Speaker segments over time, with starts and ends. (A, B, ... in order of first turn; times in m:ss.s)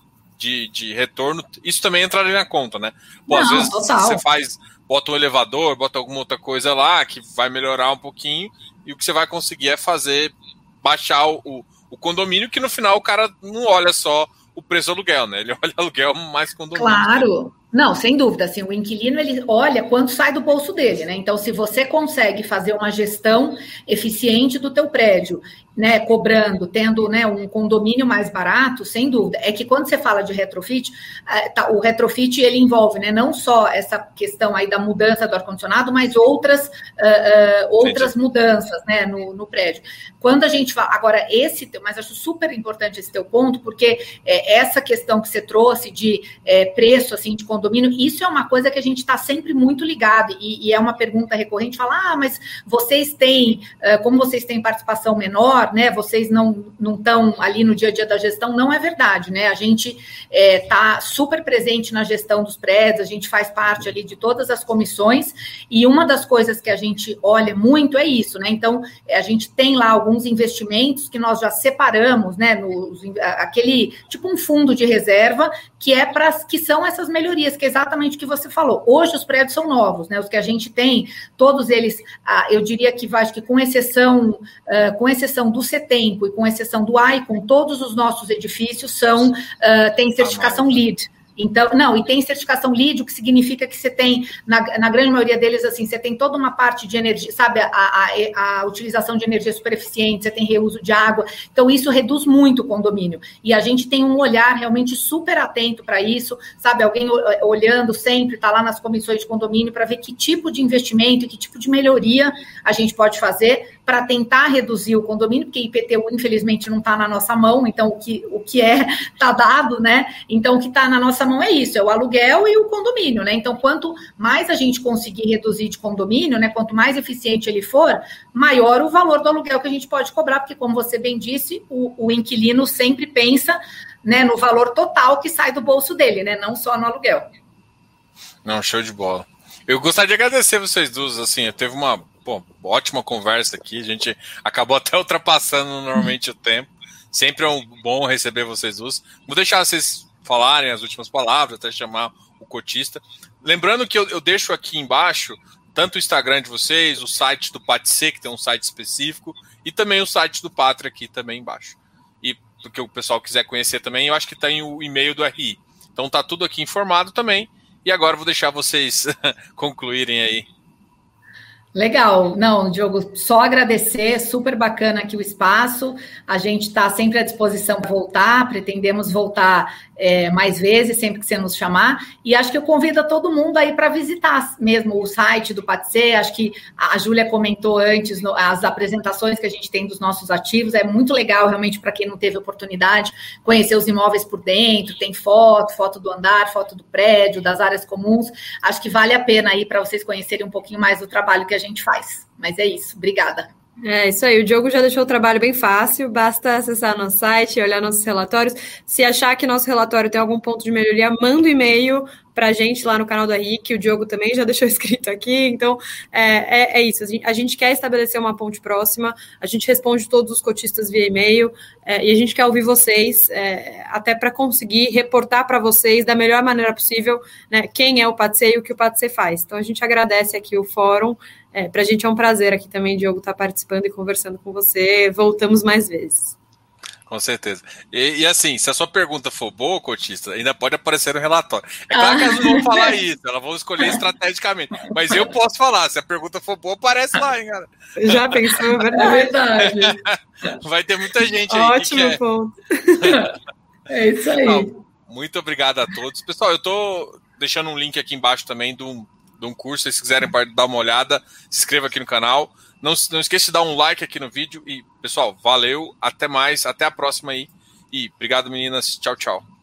0:00.4-0:17.2 A
0:03.3-0:04.2 B
0:16.8-2:17.3 B
0:37.8-0:38.1 A
1:30.2-1:30.7 A
2:18.4-2:50.5 A
2:51.8-3:23.5 B
3:23.8-3:56.4 C
3:57.1-4:08.4 A
4:01.9-4:03.0 B
4:08.0-4:09.3 C
4:09.0-4:10.0 B
4:09.6-4:12.2 A
4:11.5-4:13.3 C
4:13.0-4:13.3 A
4:13.9-4:14.7 B
4:14.4-4:29.4 A